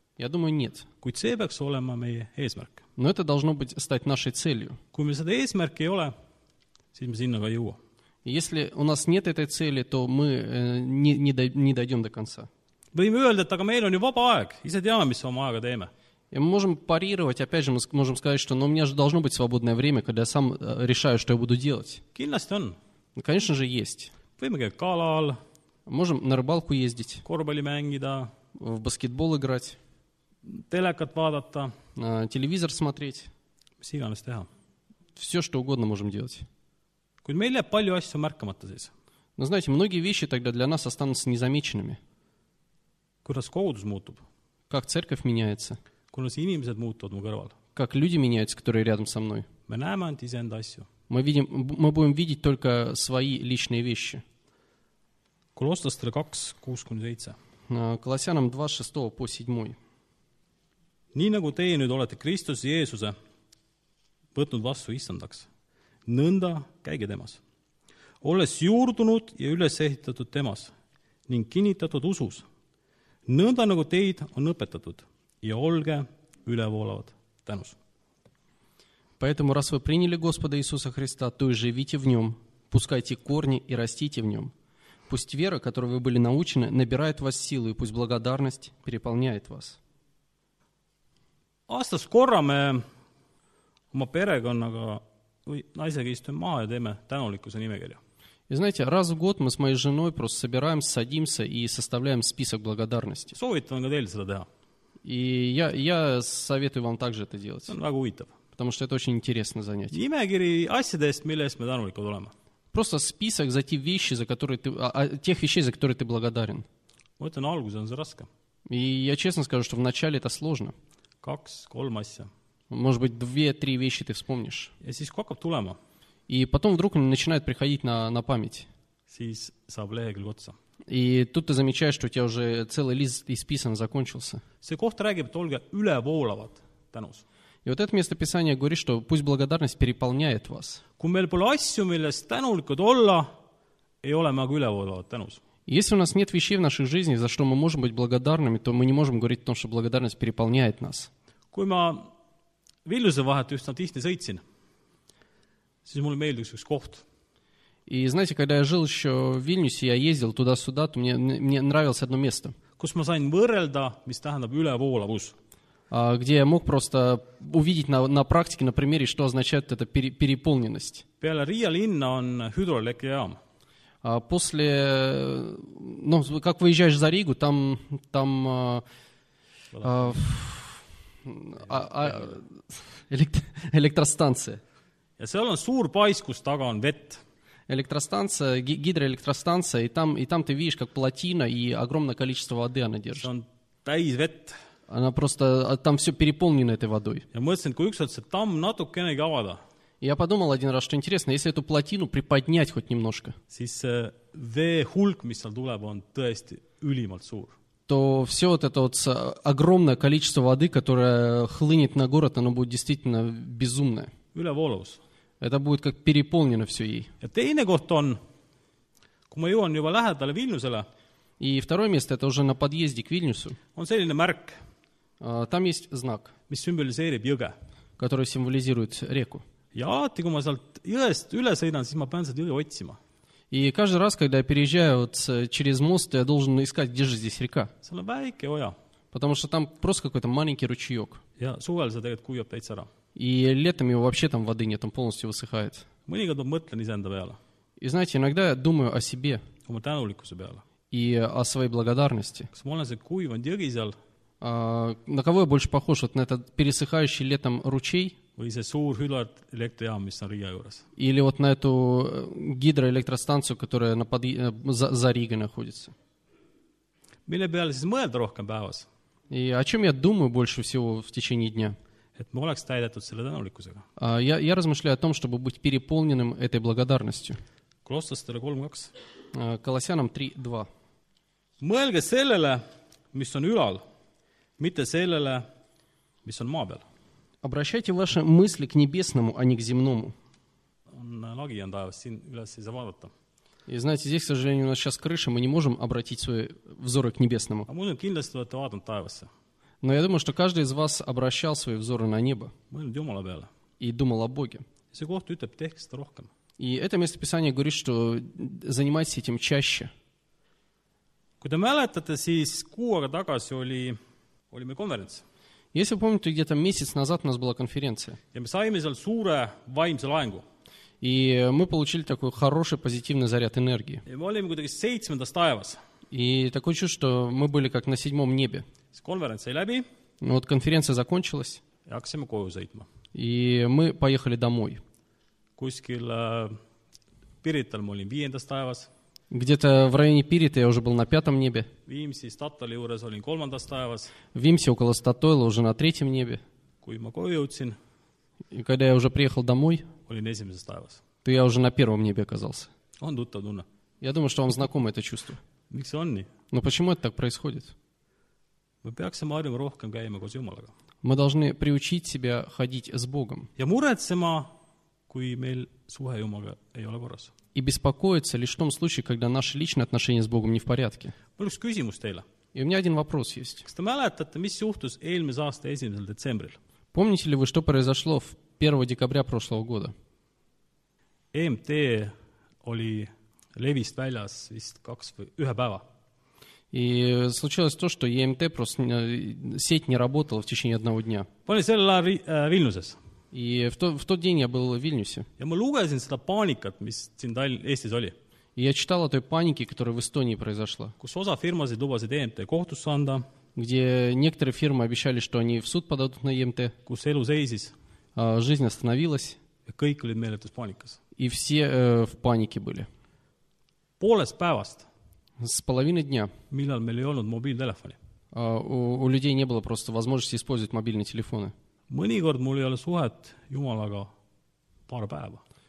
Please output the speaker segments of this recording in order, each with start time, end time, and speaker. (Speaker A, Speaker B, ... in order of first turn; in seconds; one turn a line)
Speaker A: 0.2-0.9
Speaker B: 1.0-2.8
Speaker A: 3.0-4.8
Speaker B: 4.9-6.1
Speaker B: 6.9-7.8
Speaker A: 8.2-12.5
Speaker B: 12.9-15.9
Speaker A: 16.3-22.0
Speaker B: 22.1-22.8
Speaker A: 23.2-24.1
Speaker B: 24.4-25.4
Speaker A: 25.9-27.2
Speaker B: 27.2-28.3
Speaker A: 28.6-29.8
Speaker B: 30.5-31.7
Speaker A: 32.0-33.3
Speaker B: 33.8-34.5
Speaker A: 35.2-36.5
Speaker B: 37.2-38.9
Speaker A: 39.4-42.0
Speaker B: 43.2-44.2
Speaker A: 44.7-45.8
Speaker B: 46.1-47.5
Speaker A: 47.8-49.5
Speaker B: 49.7-50.9
Speaker A: 51.1-54.2
Speaker B: 55.6-57.4
Speaker A: 57.7-59.8
Speaker B: 61.1-63.1
Speaker B: 64.3-65.5
Speaker B: 66.1-67.4
Speaker B: 68.2-70.7
Speaker B: 71.3-72.4
Speaker B: 73.3-77.8
Speaker A: 79.2-84.5
Speaker A: 85.1-89.8
Speaker B: 91.7-92.8
Speaker B: 93.9-98.0
Speaker A: 98.5-103.3
Speaker B: 103.3-104.5
Speaker A: 105.0-107.8
Speaker B: 107.7-108.3
Speaker A: 108.6-110.0
Speaker B: 109.9-112.3
Speaker A: 112.7-116.7
Speaker B: 117.2-118.3
Speaker A: 118.7-120.7
Speaker B: 121.2-122.3
Speaker A: 122.7-124.7
Speaker B: 124.8-125.8
Speaker A: 126.3-128.7
Speaker B: 129.1-130.6
Speaker A: 130.9-134.4
Speaker B: 134.6-137.2
Speaker A: 137.7-140.8
Speaker B: 141.0-143.3
Speaker B: 144.0-145.4
Speaker A: 145.7-151.1
Speaker B: 151.5-152.1
Speaker B: 152.8-154.4
Speaker B: 155.8-157.1
Speaker A: 157.9-162.6
Speaker B: 162.8-165.3
Speaker A: 165.9-171.0
Speaker B: 171.2-173.4
Speaker A: 174.0-178.8
Speaker B: 179.7-180.2
Speaker A: 179.8-184.6
Speaker B: 185.2-187.2
Speaker A: 187.7-193.3
Speaker B: 193.2-194.6
Speaker A: 194.9-197.2
Speaker B: 197.3-199.6
Speaker A: 200.0-203.4
Speaker B: 203.5-207.6
Speaker A: 207.9-214.1
Speaker B: 214.3-215.0
Speaker A: 215.4-217.1
Speaker B: 217.2-218.2
Speaker B: 219.3-220.9
Speaker A: 221.4-223.6
Speaker B: 223.8-224.6
Speaker A: 225.2-226.3
Speaker B: 226.5-227.6
Speaker A: 228.0-229.4
Speaker B: 229.7-233.0
Speaker A: 233.5-237.7
Speaker B: 237.8-238.8
Speaker A: 239.1-241.2
Speaker B: 241.4-242.9
Speaker A: 243.2-245.9
Speaker B: 246.1-247.4
Speaker A: 247.8-249.4
Speaker B: 249.7-250.6
Speaker A: 250.9-252.5
Speaker B: 252.5-253.9
Speaker A: 254.4-258.2
Speaker B: 258.4-260.9
Speaker A: 261.0-265.9
Speaker B: 267.3-268.9
Speaker A: 269.3-271.8
Speaker B: 272.2-273.9
Speaker A: 274.0-277.4
Speaker B: 277.9-278.9
Speaker A: 279.3-280.7
Speaker B: 281.6-283.8
Speaker B: 284.6-285.5
Speaker B: 286.2-286.8
Speaker A: 287.4-290.1
Speaker B: 290.9-293.1
Speaker A: 293.7-297.7
Speaker B: 297.7-299.3
Speaker A: 299.8-302.5
Speaker B: 302.7-303.5
Speaker A: 303.8-304.6
Speaker B: 304.9-306.3
Speaker A: 306.6-309.9
Speaker B: 311.4-314.0
Speaker B: 314.5-315.2
Speaker A: 315.7-318.2
Speaker B: 318.3-320.4
Speaker A: 321.0-324.0
Speaker B: 324.1-325.8
Speaker A: 326.1-328.6
Speaker B: 328.9-329.9
Speaker A: 330.2-331.6
Speaker B: 331.9-332.9
Speaker A: 333.1-334.8
Speaker B: 335.6-336.6
Speaker B: 337.4-338.9
Speaker A: 339.3-341.7
Speaker B: 341.9-344.1
Speaker A: 344.3-346.4
Speaker B: 346.8-347.8
Speaker A: 348.5-349.9
Speaker B: 350.1-351.0
Speaker A: 351.2-352.7
Speaker B: 353.0-353.7
Speaker A: 354.0-355.4
Speaker B: 355.7-356.3
Speaker A: 356.5-357.7
Speaker B: 358.8-360.7
Speaker A: 361.0-363.5
Speaker B: 363.6-364.5
Speaker B: 365.1-367.3
Speaker A: 367.6-371.1
Speaker B: 371.4-372.2
Speaker A: 372.5-373.6
Speaker B: 373.6-376.6
Speaker A: 376.9-379.9
Speaker B: 381.3-385.8
Speaker A: 386.7-391.3
Speaker B: 391.5-393.0
Speaker A: 393.3-395.3
Speaker B: 395.4-398.2
Speaker A: 398.6-401.0
Speaker B: 401.0-403.2
Speaker A: 403.6-406.8
Speaker B: 406.9-407.8
Speaker A: 408.2-409.4
Speaker B: 409.7-411.0
Speaker A: 411.2-412.9
Speaker B: 414.0-414.9
Speaker A: 415.4-416.3
Speaker B: 416.5-418.0
Speaker A: 418.3-421.5
Speaker B: 421.9-424.1
Speaker B: 424.9-425.4